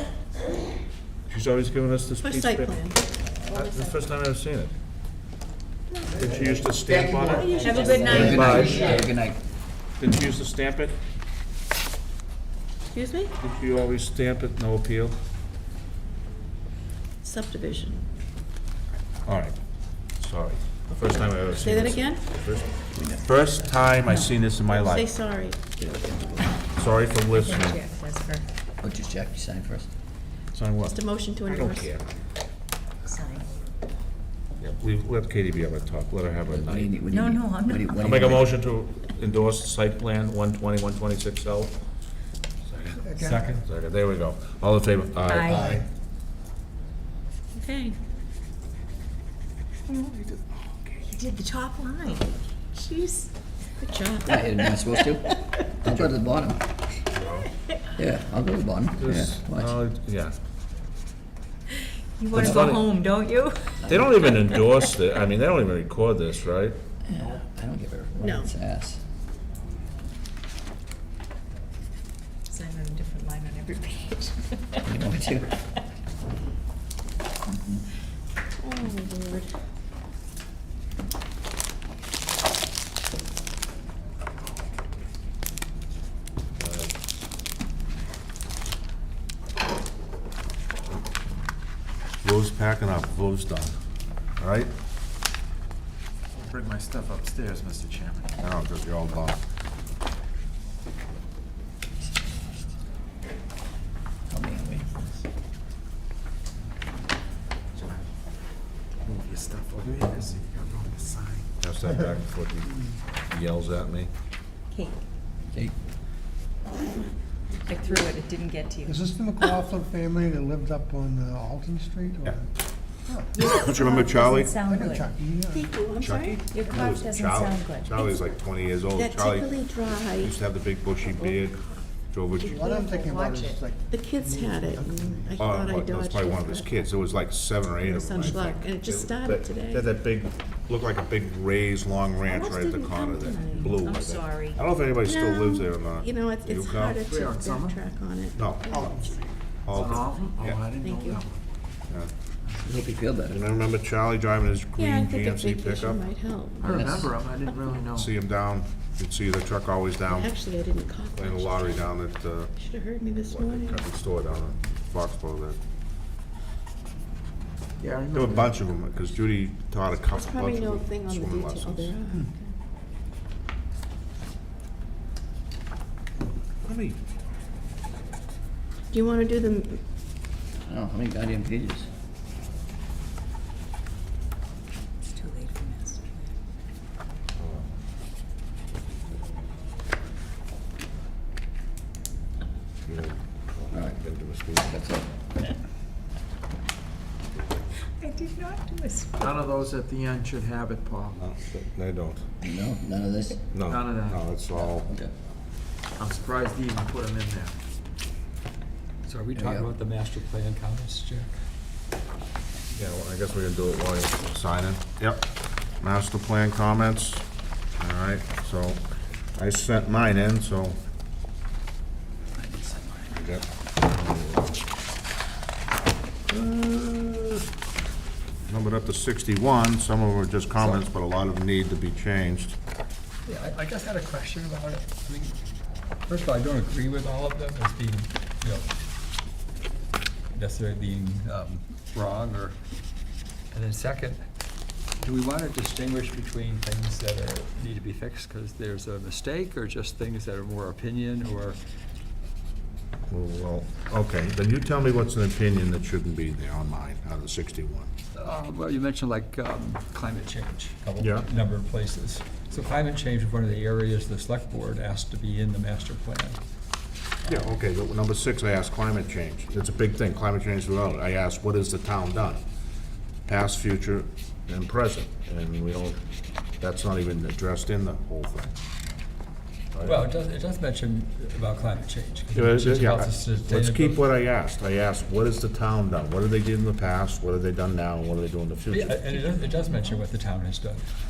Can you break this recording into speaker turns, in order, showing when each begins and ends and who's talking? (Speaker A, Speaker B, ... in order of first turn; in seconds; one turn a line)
Speaker A: 1.3-2.8
Speaker B: 2.2-3.0
Speaker B: 3.5-4.0
Speaker A: 3.5-4.7
Speaker B: 5.9-6.2
Speaker A: 6.2-9.1
Speaker C: 6.8-9.4
Speaker B: 7.4-8.1
Speaker D: 7.6-9.1
Speaker A: 10.0-10.9
Speaker B: 12.9-13.3
Speaker A: 13.4-15.2
Speaker B: 17.2-18.0
Speaker A: 19.2-19.6
Speaker A: 20.2-25.1
Speaker B: 21.6-22.3
Speaker C: 22.9-23.2
Speaker B: 24.6-25.6
Speaker C: 25.8-26.5
Speaker A: 26.7-27.8
Speaker D: 27.3-28.4
Speaker C: 28.8-29.9
Speaker A: 30.5-32.1
Speaker B: 30.9-31.9
Speaker D: 33.0-33.5
Speaker A: 34.6-37.0
Speaker C: 36.5-38.5
Speaker D: 37.1-38.0
Speaker A: 38.0-41.7
Speaker A: 42.7-43.0
Speaker E: 43.0-43.5
Speaker F: 43.1-43.6
Speaker A: 43.5-45.8
Speaker D: 45.2-45.7
Speaker E: 45.5-45.8
Speaker B: 47.5-48.0
Speaker A: 49.9-51.0
Speaker D: 51.1-53.3
Speaker B: 52.7-53.1
Speaker B: 53.8-54.8
Speaker C: 54.2-56.6
Speaker A: 57.1-57.5
Speaker C: 58.0-59.8
Speaker A: 59.0-60.3
Speaker D: 61.7-64.7
Speaker C: 62.3-62.9
Speaker A: 62.3-63.0
Speaker A: 63.9-66.8
Speaker C: 67.0-69.0
Speaker B: 68.2-68.5
Speaker D: 72.5-75.1
Speaker C: 74.8-75.6
Speaker C: 77.5-77.8
Speaker B: 78.6-79.5
Speaker A: 86.6-86.9
Speaker A: 92.2-93.7
Speaker A: 94.4-94.7
Speaker G: 96.3-98.3
Speaker A: 98.4-99.4
Speaker C: 104.3-105.0
Speaker G: 107.7-108.0
Speaker G: 109.0-111.5
Speaker A: 111.6-112.7
Speaker A: 113.3-114.1
Speaker D: 114.7-115.0
Speaker D: 117.7-119.6
Speaker E: 118.8-122.5
Speaker D: 123.3-125.1
Speaker A: 123.4-124.6
Speaker E: 124.6-125.8
Speaker B: 125.5-126.5
Speaker A: 125.9-129.6
Speaker D: 126.5-128.2
Speaker B: 128.9-130.4
Speaker A: 130.1-131.6
Speaker B: 131.0-131.4
Speaker A: 132.1-132.7
Speaker E: 132.3-135.5
Speaker D: 132.4-133.6
Speaker B: 133.9-136.9
Speaker A: 135.4-147.0
Speaker B: 137.8-139.9
Speaker B: 142.2-143.7
Speaker D: 143.4-144.6
Speaker B: 145.0-149.1
Speaker G: 147.0-147.8
Speaker A: 148.3-149.0
Speaker A: 149.6-150.7
Speaker G: 149.7-151.4
Speaker B: 150.8-151.2
Speaker C: 152.6-153.4
Speaker A: 153.3-156.1
Speaker B: 154.8-156.7
Speaker G: 156.6-158.1
Speaker C: 156.6-157.1
Speaker A: 157.9-160.3
Speaker B: 160.1-161.9
Speaker A: 161.1-162.5
Speaker B: 162.5-163.8
Speaker A: 163.2-165.6
Speaker G: 167.8-168.7
Speaker A: 168.1-171.9
Speaker B: 170.1-172.5
Speaker A: 176.7-177.0
Speaker B: 178.9-179.8
Speaker C: 180.7-181.9
Speaker D: 185.1-186.3
Speaker A: 187.4-187.7
Speaker A: 192.8-194.7
Speaker C: 193.7-194.0
Speaker C: 194.7-195.1
Speaker D: 198.0-199.4
Speaker G: 199.2-201.2
Speaker A: 201.2-202.2
Speaker C: 202.4-203.4
Speaker A: 203.5-204.9
Speaker G: 203.6-204.2
Speaker C: 204.5-205.1
Speaker G: 205.9-207.5
Speaker F: 209.0-211.3
Speaker C: 209.3-209.7
Speaker A: 212.7-215.2
Speaker A: 215.8-217.2
Speaker A: 217.8-218.8
Speaker A: 219.3-220.8
Speaker F: 222.4-223.2
Speaker A: 223.1-224.6
Speaker A: 226.3-227.4
Speaker A: 228.4-232.5
Speaker F: 233.2-235.3
Speaker F: 236.1-238.7
Speaker F: 240.3-242.6
Speaker F: 243.5-244.2
Speaker F: 245.0-251.6
Speaker A: 253.1-257.9
Speaker F: 258.1-266.4
Speaker A: 261.0-261.3
Speaker A: 267.3-272.4
Speaker A: 273.3-276.0
Speaker A: 276.6-278.5
Speaker A: 279.7-280.0
Speaker F: 279.8-284.0
Speaker A: 282.3-289.0
Speaker F: 288.7-290.9
Speaker D: 289.3-289.9